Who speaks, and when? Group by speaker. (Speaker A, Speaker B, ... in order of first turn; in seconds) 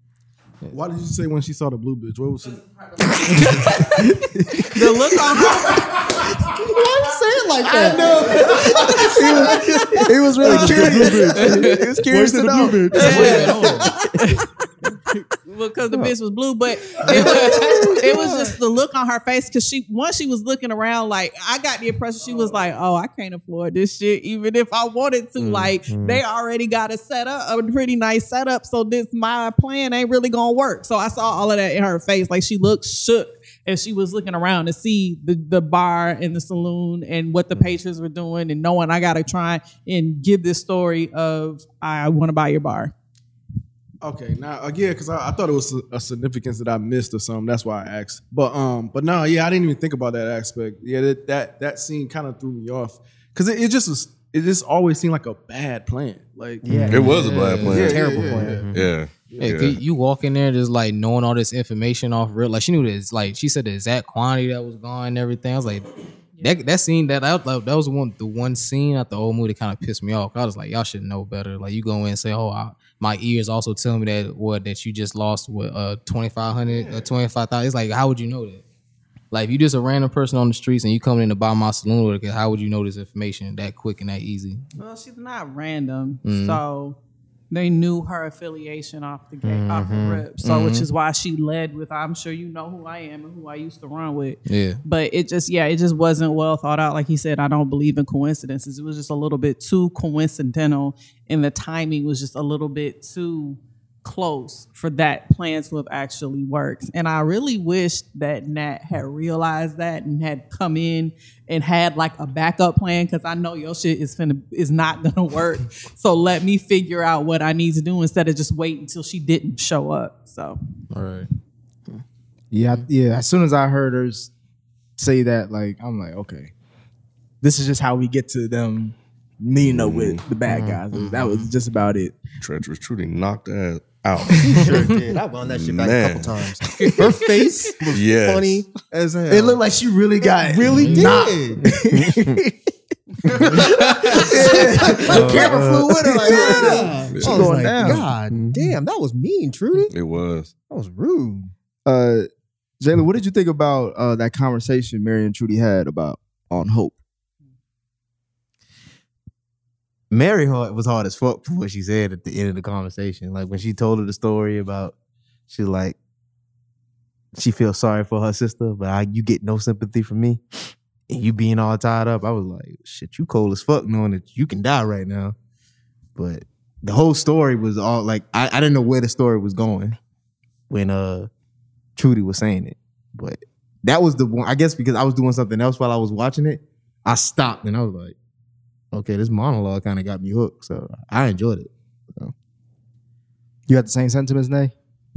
Speaker A: 0.7-3.2, 44.0-56.7, 57.7-58.6
Speaker B: 3.6-4.1, 4.7-6.0, 11.4-11.8, 12.9-14.4, 15.1-42.9, 84.8-87.0, 87.5-120.6
Speaker C: 4.2-4.7, 7.7-13.5, 57.7-58.6, 122.5-124.3, 125.0-126.5, 127.4-132.2, 139.3-142.5, 143.4-148.1, 151.8-152.3, 152.8-157.0, 193.7-194.7
Speaker D: 6.5-14.1, 17.0-18.5, 56.6-58.6, 134.4-139.6, 140.3-141.6, 143.3-149.9, 150.7-151.5
Speaker E: 12.9-13.8, 57.1-57.8, 59.4-65.9, 66.4-78.6, 79.3-84.6, 86.2-86.6, 90.4-90.8, 94.5-94.8, 120.9-121.3, 130.9-131.4, 140.8-141.1
Speaker F: 25.9-26.2, 56.7-57.1, 89.4-90.2, 130.5-130.8, 141.7-142.3, 145.0-146.9, 147.8-148.8, 160.1-164.9, 165.5-165.9, 167.3-170.4, 171.1-175.3, 176.2-180.0, 180.7-181.3, 181.9-188.1, 188.9-192.3
Speaker G: 56.9-58.0, 58.7-59.8, 129.7-130.2, 132.4-134.7, 135.5-136.3, 137.9-138.6, 147.1-147.5, 149.9-150.5